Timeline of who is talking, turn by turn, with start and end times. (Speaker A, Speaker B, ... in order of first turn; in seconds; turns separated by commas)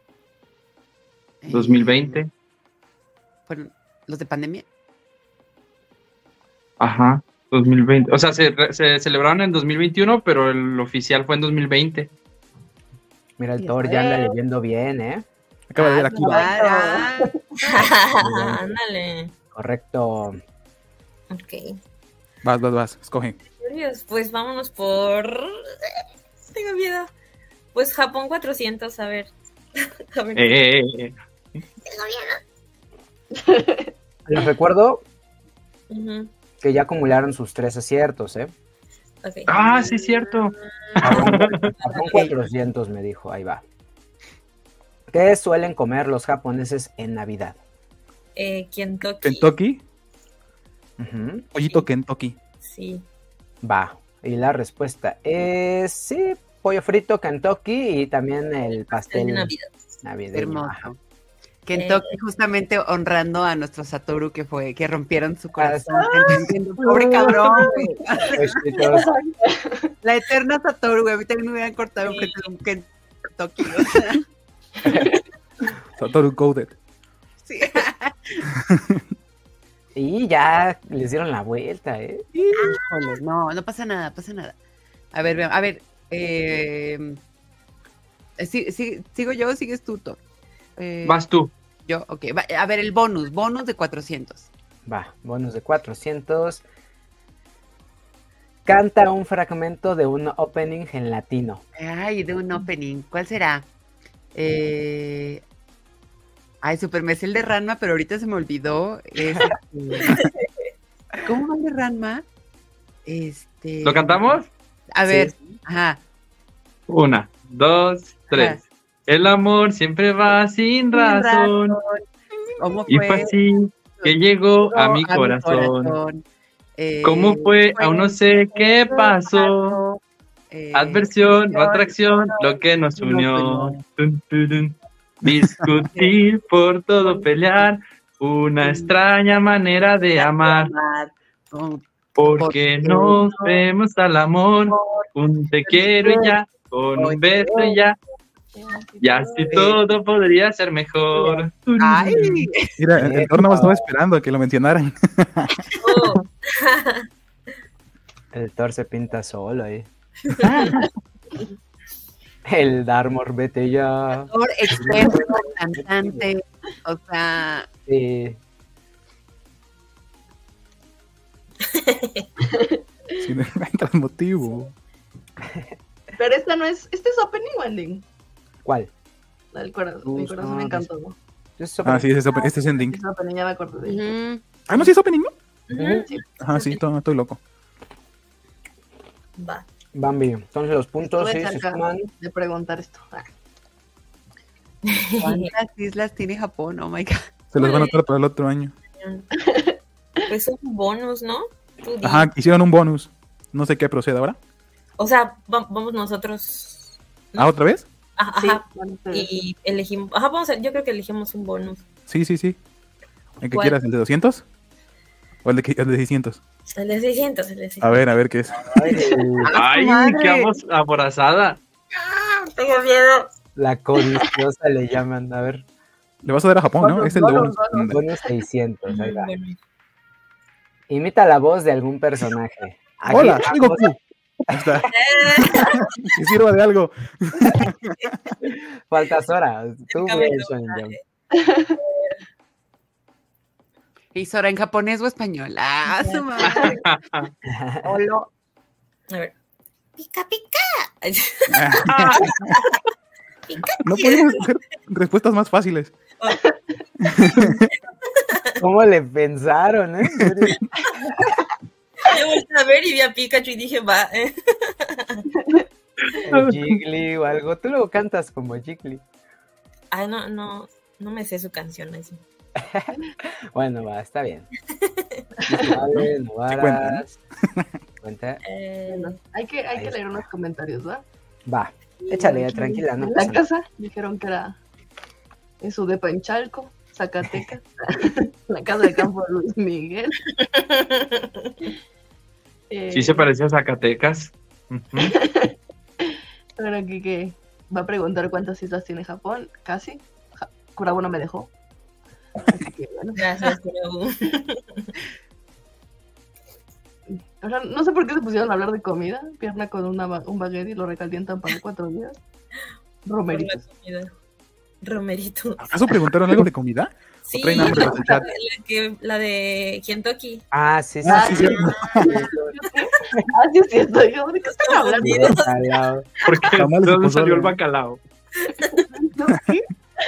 Speaker A: 1.4-2.2, Speaker B: 1.5-2.3, Speaker A: 3.5-4.7, Speaker B: 6.8-12.1, Speaker C: 13.4-15.2, Speaker A: 13.6-14.3, Speaker D: 15.7-16.4, Speaker A: 15.8-17.3, Speaker E: 16.1-17.3, Speaker F: 17.6-19.3, Speaker C: 18.2-18.7, Speaker C: 19.5-20.4, Speaker F: 21.3-21.8, Speaker D: 22.4-23.4, Speaker F: 23.6-25.5, Speaker F: 26.5-27.1, Speaker F: 27.7-29.3, Speaker F: 30.1-30.6, Speaker B: 30.3-31.1, Speaker F: 31.8-32.4, Speaker E: 33.3-33.9, Speaker C: 34.2-35.0, Speaker F: 35.9-36.3, Speaker C: 36.6-38.5, Speaker F: 39.2-39.7, Speaker B: 39.5-41.7, Speaker F: 41.0-42.3, Speaker C: 41.0-43.6, Speaker C: 45.1-47.6, Speaker F: 48.4-49.5, Speaker D: 49.2-49.8, Speaker C: 51.0-51.5, Speaker D: 51.5-52.4, Speaker F: 52.6-53.0, Speaker C: 53.6-59.5, Speaker F: 58.7-59.7, Speaker C: 60.0-60.9, Speaker A: 60.3-61.0, Speaker A: 61.6-68.8, Speaker F: 61.7-62.2, Speaker C: 65.6-67.7, Speaker E: 67.0-67.8, Speaker C: 68.3-69.1, Speaker E: 68.8-69.9, Speaker A: 70.0-74.2, Speaker E: 74.9-75.1, Speaker D: 76.0-76.7, Speaker A: 77.4-78.4, Speaker D: 78.5-79.0, Speaker C: 79.9-82.7, Speaker A: 82.5-84.5, Speaker A: 85.1-87.2, Speaker A: 88.4-90.2, Speaker A: 90.8-91.2, Speaker B: 91.0-91.5, Speaker A: 91.8-94.5, Speaker C: 94.8-96.6, Speaker C: 98.7-101.6, Speaker A: 101.8-103.7, Speaker A: 104.3-105.4, Speaker A: 106.6-110.1, Speaker A: 111.2-112.2, Speaker A: 113.0-114.4, Speaker B: 113.8-114.5, Speaker A: 114.9-116.0, Speaker C: 115.1-115.3, Speaker B: 116.9-121.7, Speaker A: 118.3-118.6, Speaker A: 120.9-122.0, Speaker A: 122.6-123.4, Speaker B: 122.9-126.0, Speaker A: 124.0-126.2, Speaker A: 126.8-130.0, Speaker B: 127.0-129.8, Speaker A: 130.5-133.8, Speaker B: 130.7-140.7, Speaker A: 135.9-136.2, Speaker A: 137.0-137.3, Speaker A: 138.6-138.9, Speaker A: 140.1-143.7, Speaker B: 142.2-147.9, Speaker A: 144.6-145.1, Speaker A: 145.6-146.4, Speaker A: 146.9-147.8, Speaker E: 148.5-149.7, Speaker B: 149.0-152.5, Speaker A: 151.1-152.8, Speaker D: 152.8-155.6, Speaker C: 153.0-153.9, Speaker F: 155.8-157.1, Speaker C: 158.3-159.9, Speaker F: 160.4-160.6, Speaker C: 160.4-160.8, Speaker C: 162.5-166.2, Speaker A: 164.2-167.7, Speaker C: 167.8-168.4, Speaker F: 171.7-172.3, Speaker E: 172.4-172.8, Speaker D: 173.2-174.7, Speaker E: 176.2-178.0, Speaker C: 178.6-178.9, Speaker E: 179.5-181.2, Speaker C: 180.0-180.9, Speaker C: 181.6-182.1, Speaker D: 181.8-183.0, Speaker E: 182.3-184.0, Speaker A: 183.8-184.6, Speaker D: 184.7-185.3, Speaker F: 185.7-186.8, Speaker C: 185.7-186.1, Speaker D: 186.4-187.4, Speaker F: 189.4-189.6, Speaker C: 189.9-192.1, Speaker E: 191.0-193.3, Speaker F: 194.9-195.5, Speaker A: 195.2-197.3, Speaker D: 197.5-198.7, Speaker F: 197.6-198.0, Speaker F: 199.0-199.3, Speaker E: 199.4-199.8, Speaker F: 200.3-202.3, Speaker D: 202.0-204.4, Speaker F: 205.0-207.5, Speaker D: 207.3-207.8, Speaker F: 208.2-211.8, Speaker E: 208.4-209.3, Speaker D: 212.1-212.6, Speaker D: 213.4-214.4, Speaker F: 213.5-213.8, Speaker D: 215.4-216.4, Speaker F: 216.7-218.1, Speaker D: 217.8-218.7, Speaker C: 218.5-219.5, Speaker A: 219.4-220.5, Speaker B: 219.5-221.6, Speaker F: 222.4-223.3, Speaker C: 223.6-225.6, Speaker D: 226.2-228.0, Speaker E: 226.8-227.9, Speaker C: 227.9-229.3, Speaker F: 228.9-229.6, Speaker C: 230.9-233.9, Speaker D: 233.1-234.0, Speaker D: 234.5-234.9, Speaker C: 234.5-234.9, Speaker F: 234.9-236.1, Speaker D: 235.4-238.3, Speaker C: 238.4-240.9, Speaker F: 239.9-241.0, Speaker E: 241.3-241.8, Speaker F: 241.8-242.2, Speaker A: 244.1-246.8, Speaker F: 246.0-246.7, Speaker B: 246.4-247.3, Speaker C: 247.5-247.9, Speaker A: 247.8-248.3, Speaker F: 250.0-252.6, Speaker D: 251.5-252.6, Speaker B: 251.8-252.3, Speaker F: 253.5-254.4, Speaker D: 253.8-255.9, Speaker D: 257.0-257.6, Speaker F: 257.2-257.5, Speaker F: 258.1-258.4, Speaker C: 258.6-260.6, Speaker F: 262.0-265.2, Speaker E: 265.3-265.6, Speaker B: 266.0-266.8, Speaker C: 266.3-269.0, Speaker F: 269.9-272.2, Speaker C: 272.6-272.9, Speaker C: 273.5-274.5, Speaker F: 274.7-275.3, Speaker E: 275.4-275.8, Speaker C: 275.5-277.2, Speaker D: 276.5-277.0, Speaker C: 278.0-278.4, Speaker F: 278.4-279.2, Speaker E: 278.9-281.0, Speaker C: 279.7-280.2, Speaker C: 281.4-283.4, Speaker E: 282.1-284.6, Speaker E: 285.6-290.2, Speaker F: 290.4-291.5, Speaker E: 292.7-293.3, Speaker B: 292.9-295.1, Speaker E: 295.0-301.5, Speaker E: 302.4-303.2, Speaker F: 303.2-304.9, Speaker E: 307.1-312.1, Speaker E: 313.0-313.6, Speaker F: 313.3-314.1, Speaker F: 314.8-316.0, Speaker D: 315.6-318.2, Speaker F: 317.2-320.4, Speaker E: 317.6-318.2, Speaker C: 320.5-322.6, Speaker D: 321.1-322.1, Speaker E: 321.1-325.4, Speaker F: 321.2-321.8, Speaker F: 324.4-325.7, Speaker C: 325.0-326.1, Speaker B: 326.2-328.0, Speaker D: 326.6-327.5, Speaker F: 328.4-328.9, Speaker E: 328.9-329.6